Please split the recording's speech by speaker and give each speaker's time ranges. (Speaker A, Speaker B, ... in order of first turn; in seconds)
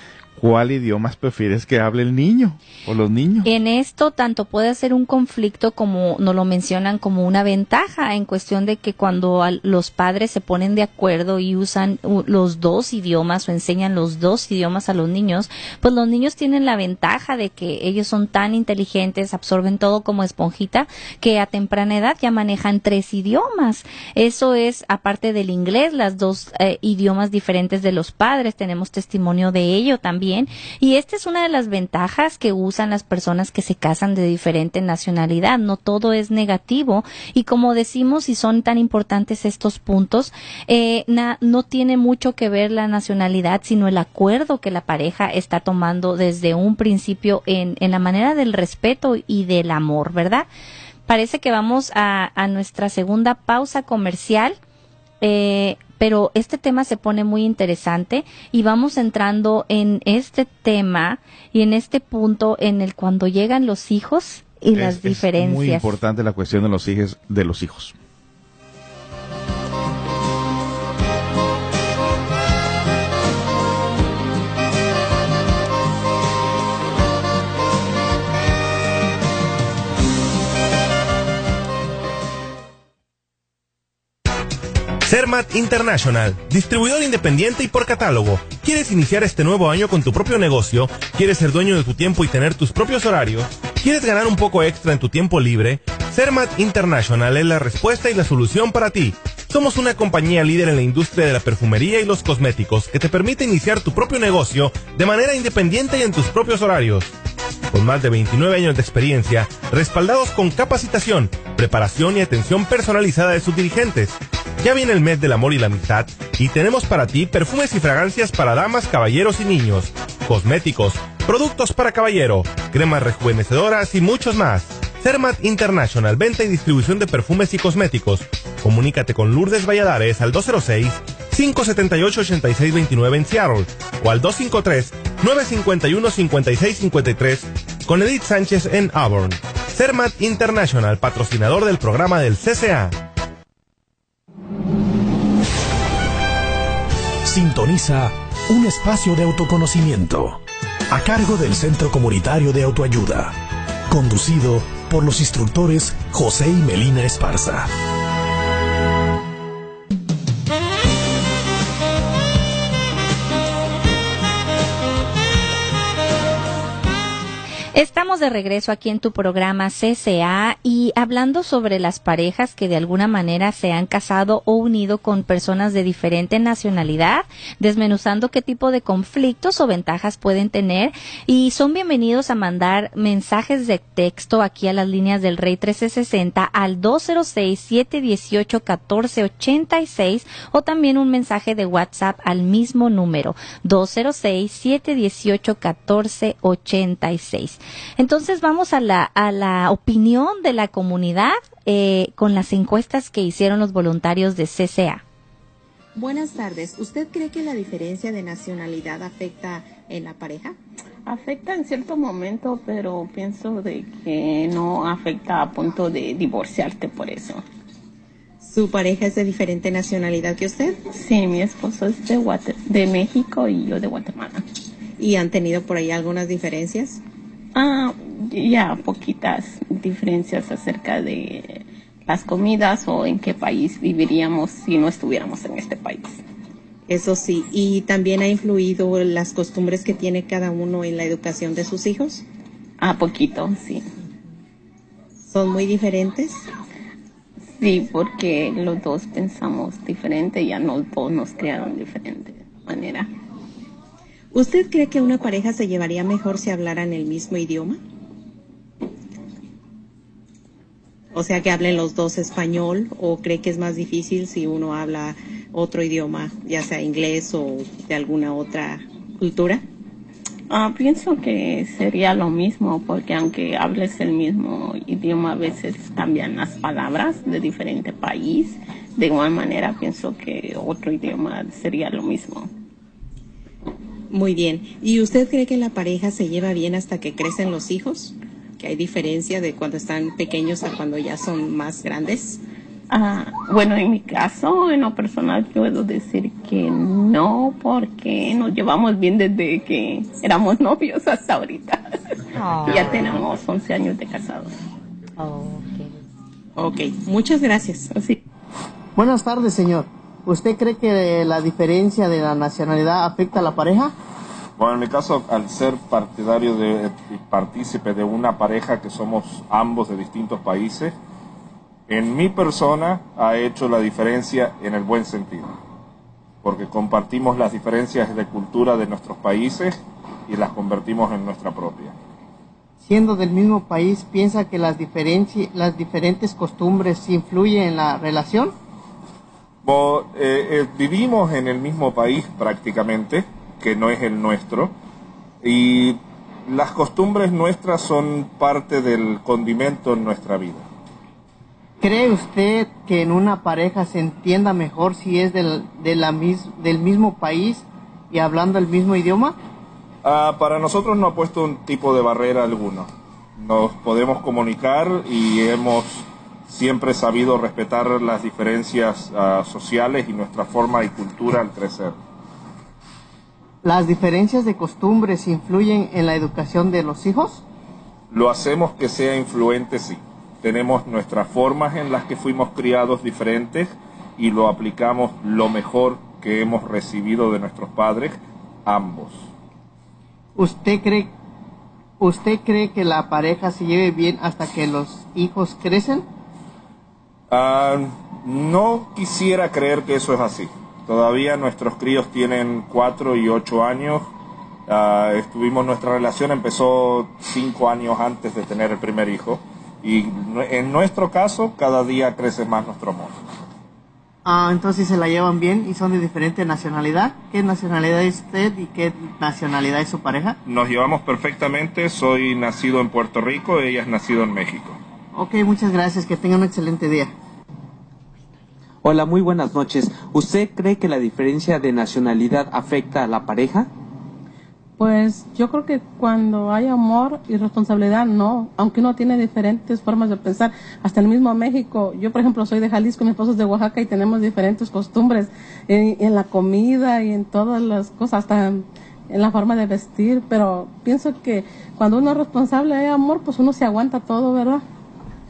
Speaker A: 0.4-3.5, 64.7-68.0
Speaker B: 3.4-50.5, 51.1-54.6, 55.2-65.9, 167.8-205.0, 305.2-305.8
Speaker C: 85.0-107.1, 107.7-142.9
Speaker D: 147.3-153.3, 153.9-157.7
Speaker E: 205.9-210.6, 218.4-220.8, 225.0-227.0, 236.9-242.2, 245.3-246.3, 254.3-257.8, 261.1-269.6, 284.1-292.4, 306.6-308.0
Speaker F: 211.1-217.4, 220.9-224.4, 227.6-236.2, 242.8-243.8, 247.6-253.1, 270.5-282.5, 292.9-301.8, 302.7-304.5
Speaker G: 309.0-313.9, 332.8-338.5, 351.8-359.4, 373.6-377.4, 390.4-391.1, 392.0-396.1, 414.2-420.4, 425.1-427.1
Speaker H: 314.6-320.9, 321.9-325.5, 326.4-329.8, 330.3-331.9, 339.6-344.7, 345.4-350.6, 360.0-372.0, 378.1-389.3, 397.3-404.1, 404.7-413.2, 420.5-424.8
Speaker I: 428.8-433.7
Speaker J: 434.8-454.6